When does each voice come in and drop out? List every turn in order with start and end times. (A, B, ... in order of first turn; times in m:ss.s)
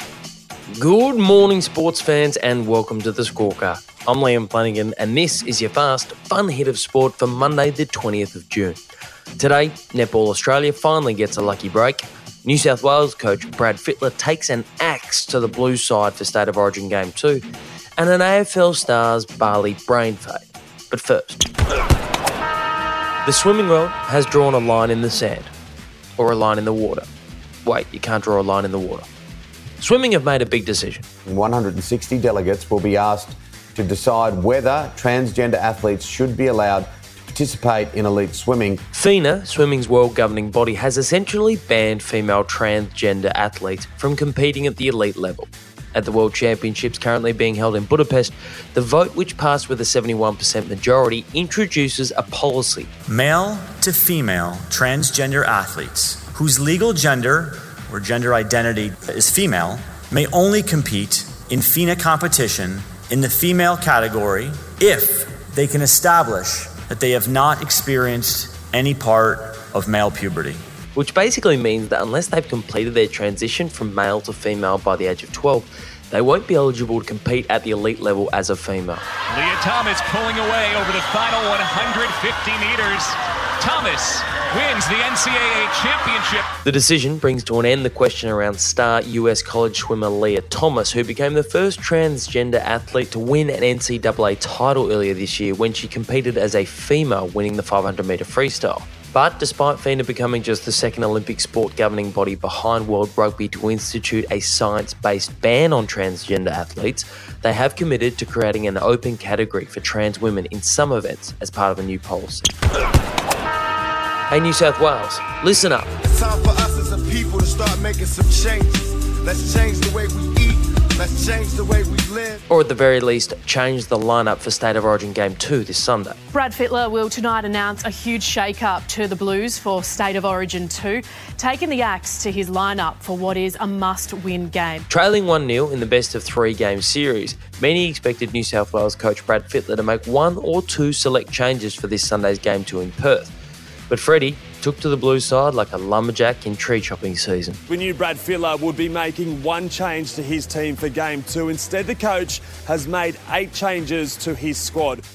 0:00.7-0:08.8 A
0:09.4-0:17.4 A
0:18.0-0:21.4 A
0:23.2-0:25.5 A
0:26.2-0:27.1 A
0:27.6-0:29.1 A
0:29.8-0:31.0 A
0:31.2-0:38.8 B
0:38.9-0:52.9 A
0:53.1-1:10.6 C
1:10.9-1:19.0 A
1:19.3-1:26.4 D
1:26.6-1:52.5 A
1:54.3-1:55.9 A
1:56.0-2:02.4 E
2:02.5-2:06.2 A
2:06.3-2:14.8 F
2:14.9-2:23.3 A
2:23.9-2:27.6 A
2:27.7-2:35.0 G